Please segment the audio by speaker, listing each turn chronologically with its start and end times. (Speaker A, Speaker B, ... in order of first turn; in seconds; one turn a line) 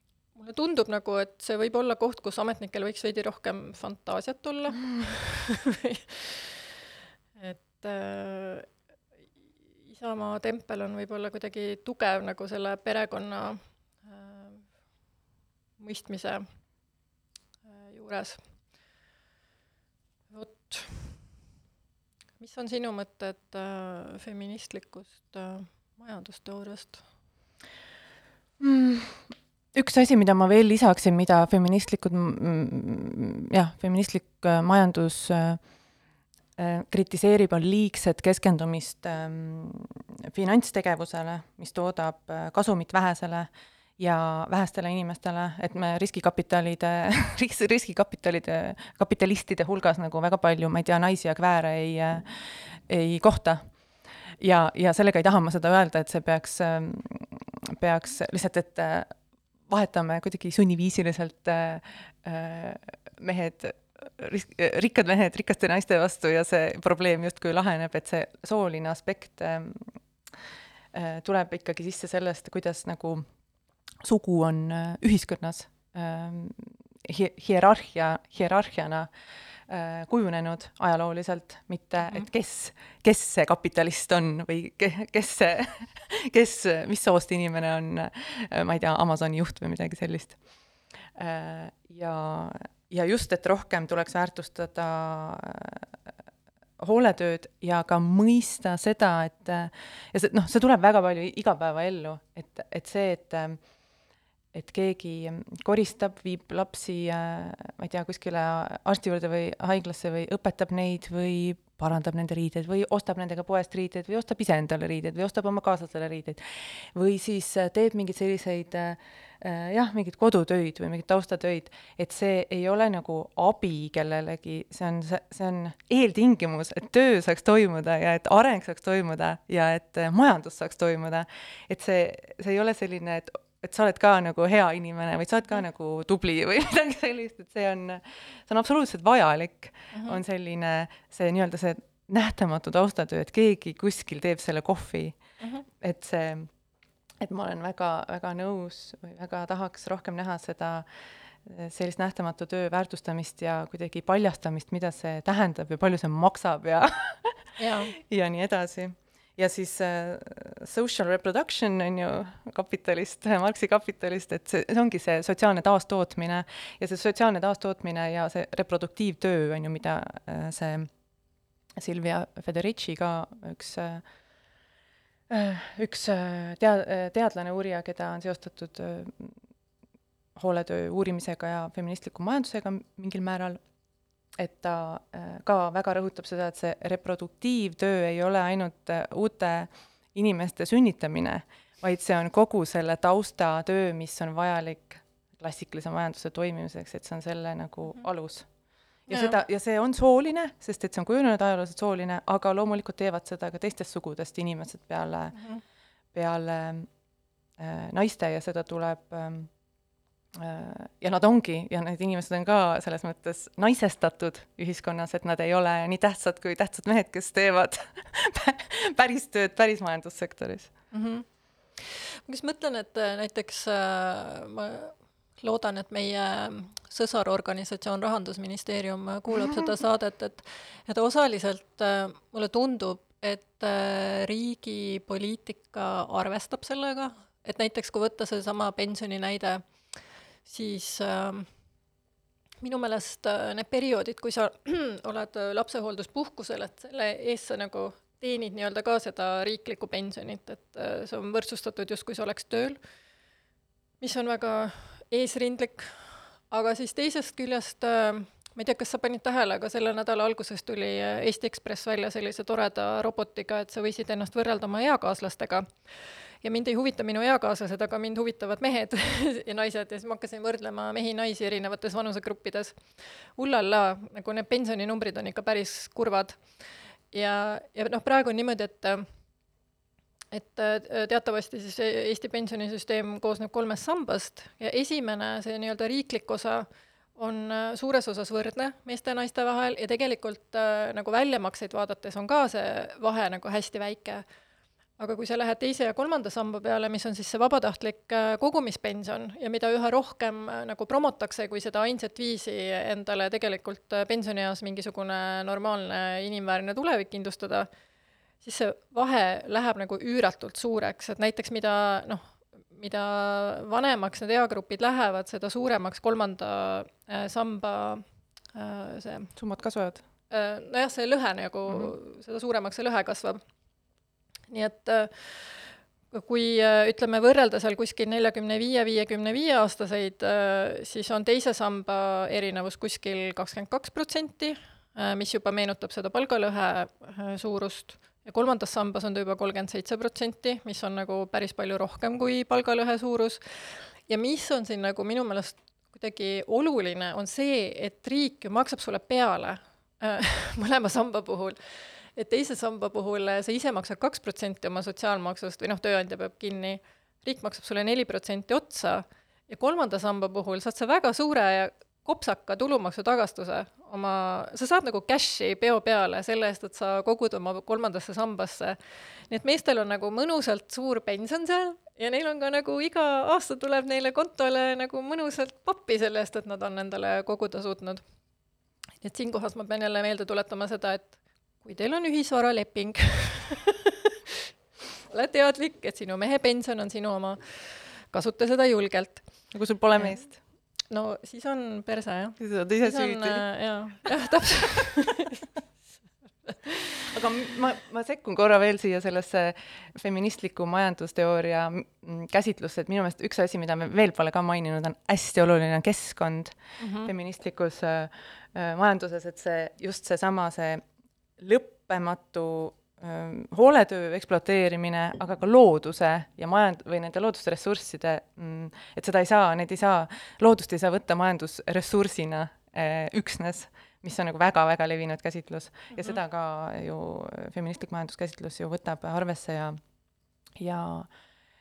Speaker A: 0.3-6.5
Speaker A: 7.4-8.7
Speaker A: 9.8-14.7
Speaker A: 15.8-16.4
Speaker A: 17.7-18.4
Speaker A: 20.3-21.2
Speaker A: 22.4-27.0
Speaker B: 28.6-35.6
Speaker B: 36.6-53.7
Speaker B: 54.4-59.1
Speaker B: 59.7-70.0
Speaker B: 70.9-73.2
Speaker B: 74.0-79.1
Speaker B: 79.7-90.4
Speaker B: 91.2-95.9
Speaker B: 96.8-103.6
Speaker B: 104.5-146.5
Speaker A: 139.9-140.2
Speaker B: 147.2-150.8
Speaker B: 151.4-170.9
Speaker A: 157.6-157.9
Speaker B: 171.8-174.0
Speaker B: 175.3-179.4
Speaker B: 180.3-183.6
Speaker B: 184.3-198.5
Speaker B: 199.1-205.4
Speaker A: 199.1-199.4
Speaker A: 205.3-205.6
Speaker B: 206.1-206.9
Speaker B: 207.6-209.5
Speaker B: 210.3-220.7
Speaker A: 220.9-221.2
Speaker A: 221.8-241.5
Speaker B: 229.3-229.6
Speaker A: 242.6-252.8
Speaker A: 254.0-276.6
Speaker A: 277.1-279.0
Speaker A: 280.3-294.2
Speaker A: 295.0-307.7
Speaker A: 308.4-319.3
Speaker B: 319.4-320.0
Speaker A: 320.3-323.4
Speaker B: 321.7-321.9
Speaker A: 324.5-378.0
Speaker A: 379.0-384.3
Speaker A: 385.1-389.3
Speaker B: 389.5-390.4
Speaker A: 389.9-390.3
Speaker A: 390.9-395.4
Speaker B: 392.4-393.5
Speaker A: 396.4-397.1
Speaker B: 397.1-410.8
Speaker A: 406.8-407.1
Speaker B: 411.4-429.8
Speaker A: 425.9-426.2
Speaker B: 430.6-431.1